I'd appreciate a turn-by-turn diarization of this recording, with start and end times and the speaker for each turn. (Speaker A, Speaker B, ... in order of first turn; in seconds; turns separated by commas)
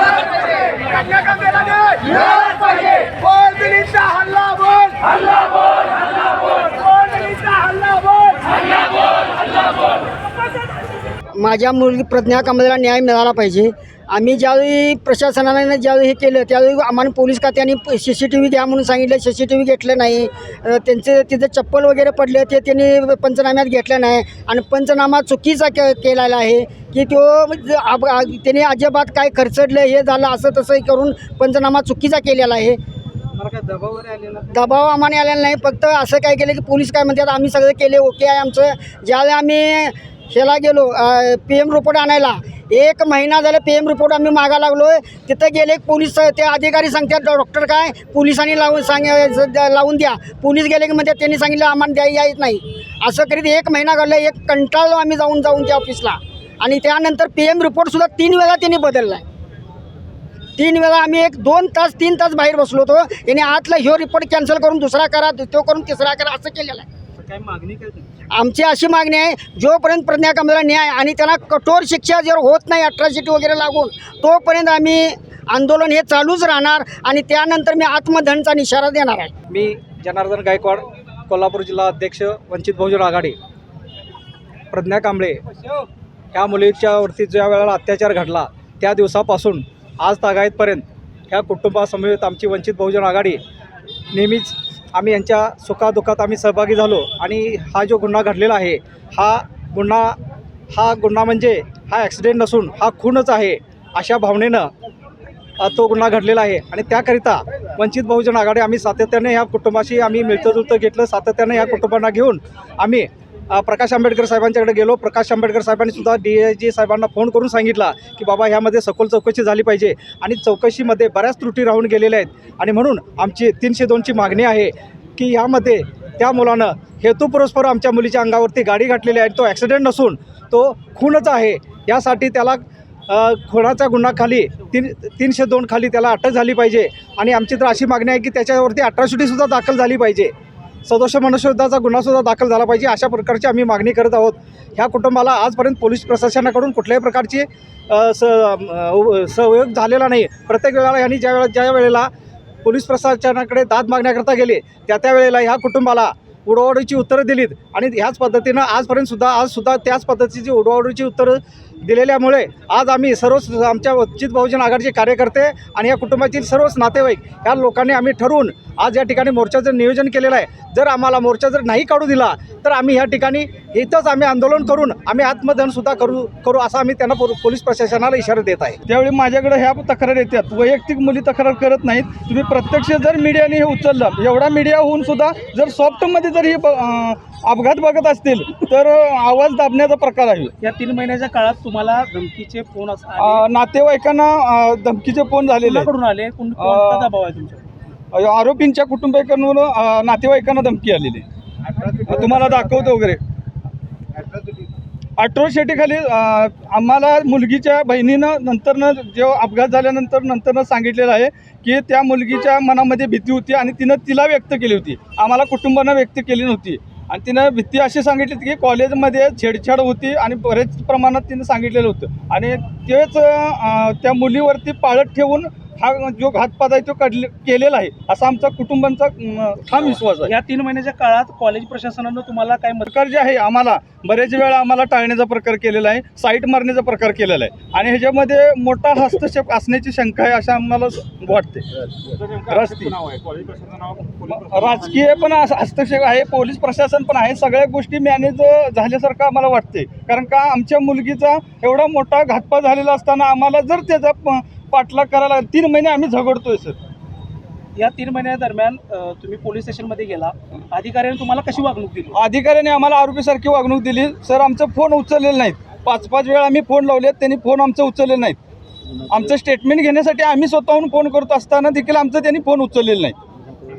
Speaker A: 1.0-5.0, Speaker B: 1.6-1.9, Speaker B: 2.9-3.3, Speaker B: 7.1-7.7, Speaker A: 7.6-8.0, Speaker A: 11.3-32.8, Speaker C: 33.6-34.1, Speaker A: 34.2-59.2, Speaker A: 60.6-66.9, Speaker B: 67.2-68.0, Speaker A: 68.3-79.3, Speaker C: 79.5-83.4, Speaker C: 84.7-85.4, Speaker C: 86.3-93.4, Speaker C: 94.1-100.2, Speaker C: 100.7-104.7, Speaker C: 105.6-140.3, Speaker C: 140.9-152.1, Speaker C: 152.6-178.8, Speaker D: 178.9-190.5, Speaker B: 190.6-193.4, Speaker D: 193.2-195.9, Speaker B: 195.6-197.7, Speaker D: 196.6-197.1, Speaker D: 198.1-201.2, Speaker D: 201.8-203.2, Speaker D: 205.2-230.3, Speaker B: 230.2-232.9, Speaker D: 232.8-241.7, Speaker D: 242.3-243.1, Speaker D: 244.2-256.8, Speaker B: 257.8-262.2, Speaker D: 262.1-268.4, Speaker D: 269.1-273.2